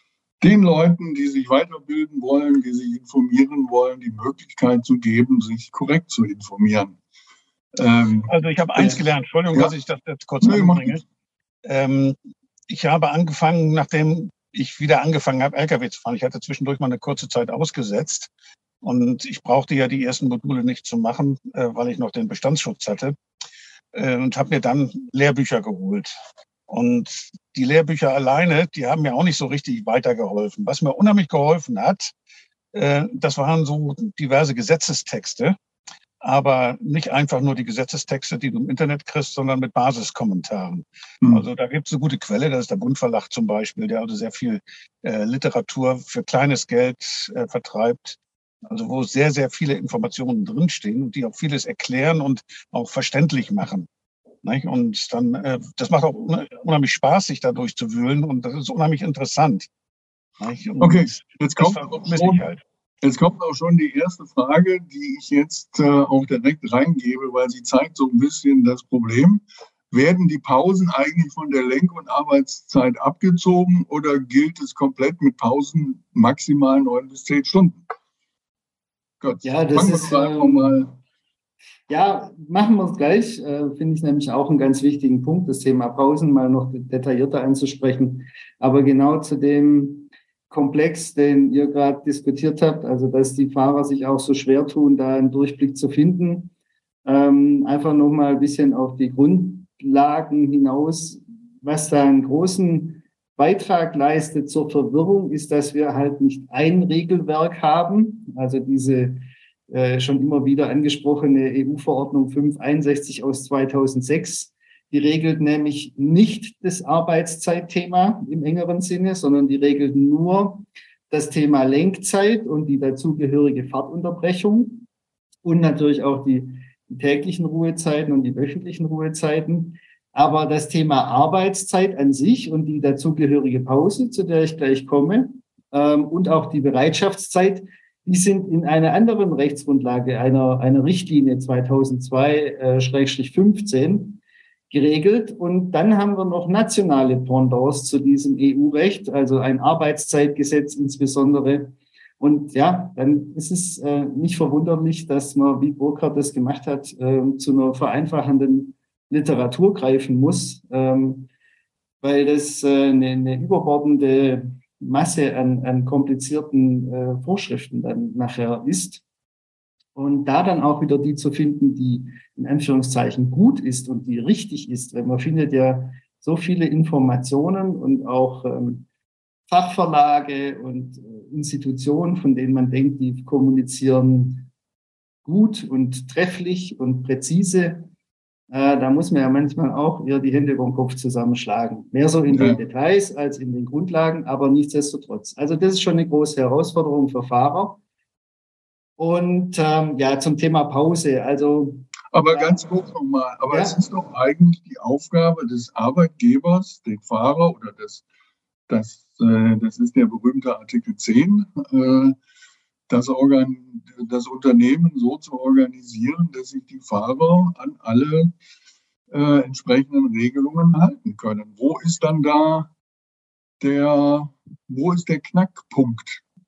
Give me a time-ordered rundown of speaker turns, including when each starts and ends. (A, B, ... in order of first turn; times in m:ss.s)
0:00.4-0:07.0 A
0:07.7-0:09.0 A
0:08.3-0:11.0 B
0:10.4-0:11.0 A
0:11.6-0:12.2 B
0:12.7-0:18.3 B
0:18.8-0:23.1 B
0:23.9-0:26.1 B
0:26.7-0:32.1 B
0:32.7-0:35.5 B
0:36.2-0:53.9 B
0:54.4-0:59.7 B
1:00.4-1:02.6 B
1:00.8-1:02.5 A
1:03.0-1:17.8 A
1:19.2-1:20.9 A
1:19.4-1:20.8 C
1:21.9-1:36.5 C
1:37.0-2:04.9 C
2:05.4-2:24.2 C
2:24.7-2:41.3 C
2:42.0-2:49.0 C
2:49.9-2:58.8 C
2:59.5-3:04.5 C
3:05.2-3:07.9 C
3:08.5-3:17.8 C
3:12.3-3:12.6 A
3:19.0-3:22.7 C
3:22.1-3:28.0 A
3:23.5-3:23.8 C
3:28.7-3:32.2 A
3:32.9-3:38.3 A
3:39.1-3:42.7 A
3:43.6-3:46.2 A